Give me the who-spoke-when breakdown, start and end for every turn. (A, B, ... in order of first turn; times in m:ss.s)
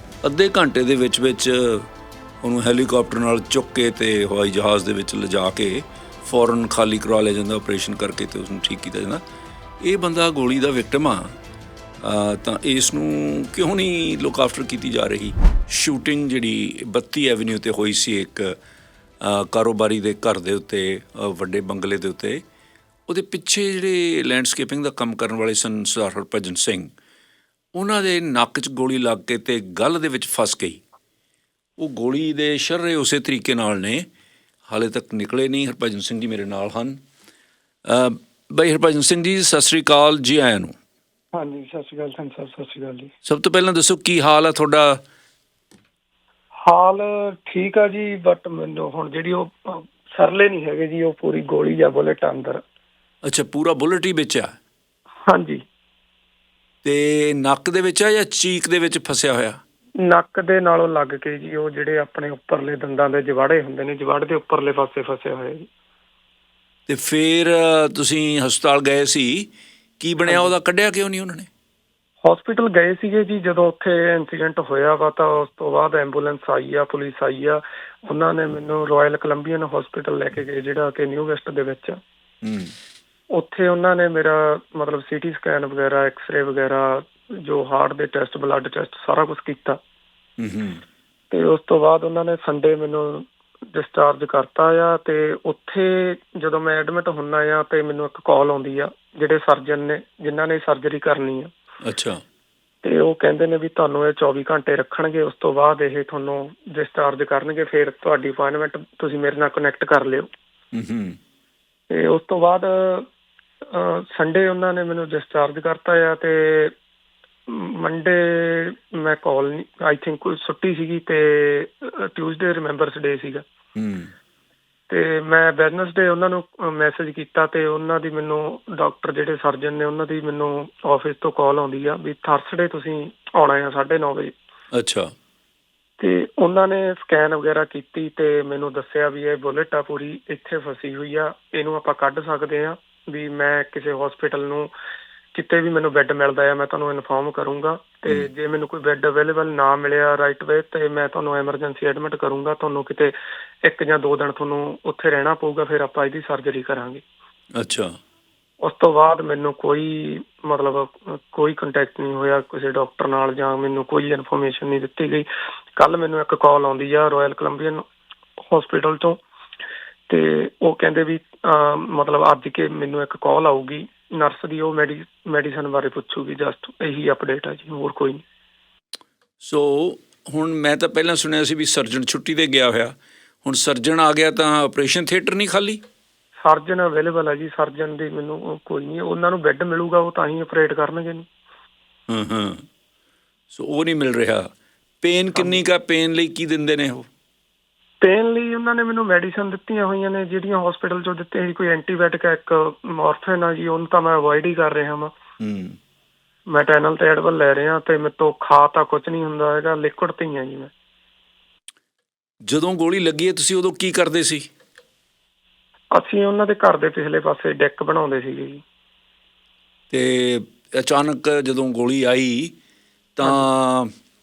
0:00.2-0:01.9 A
0:02.4-0:09.2 A
0:09.8-0:11.3 A
0:12.0-0:18.6 A
0:19.2-0:22.4 A
0:23.1-0:26.9 A
0:27.7-0:30.8 A
0:31.8-0:34.1 A
0:34.7-0:37.0 A
0:37.8-0:40.7 A
0:41.3-0:43.1 B
0:43.2-0:45.0 A
0:46.6-0:52.6 B
0:53.2-0:54.5 A
0:55.3-0:55.6 B
0:56.8-0:59.6 A
1:00.0-1:05.7 B
1:06.9-1:11.5 A
1:10.2-1:10.5 B
1:12.2-1:22.0 B
1:22.4-1:22.7 A
1:23.3-1:29.8 B
1:30.4-1:30.8 A
1:31.3-1:41.5 B
1:41.8-1:42.2 A
1:42.8-1:50.3 B
1:50.7-1:51.2 A
1:51.9-1:53.1 B
1:53.6-1:56.7 B
1:57.5-2:03.4 B
2:03.8-2:04.1 A
2:04.9-2:14.3 B
2:14.7-2:15.1 A
2:16.0-2:24.7 B
2:25.3-2:37.0 B
2:37.6-2:37.9 A
2:38.6-2:47.8 B
2:48.4-2:49.2 B
2:50.1-2:58.2 B
2:59.4-3:05.8 A
3:06.4-3:11.2 B
3:12.1-3:12.6 A
3:13.5-3:14.5 A
3:15.0-3:17.1 A
3:15.3-3:15.6 B
3:18.0-3:25.1 B
3:25.4-3:25.8 A
3:26.5-3:30.7 B
3:32.5-3:34.5 A
3:35.9-3:38.6 B
3:39.9-3:42.5 A
3:43.2-3:43.9 A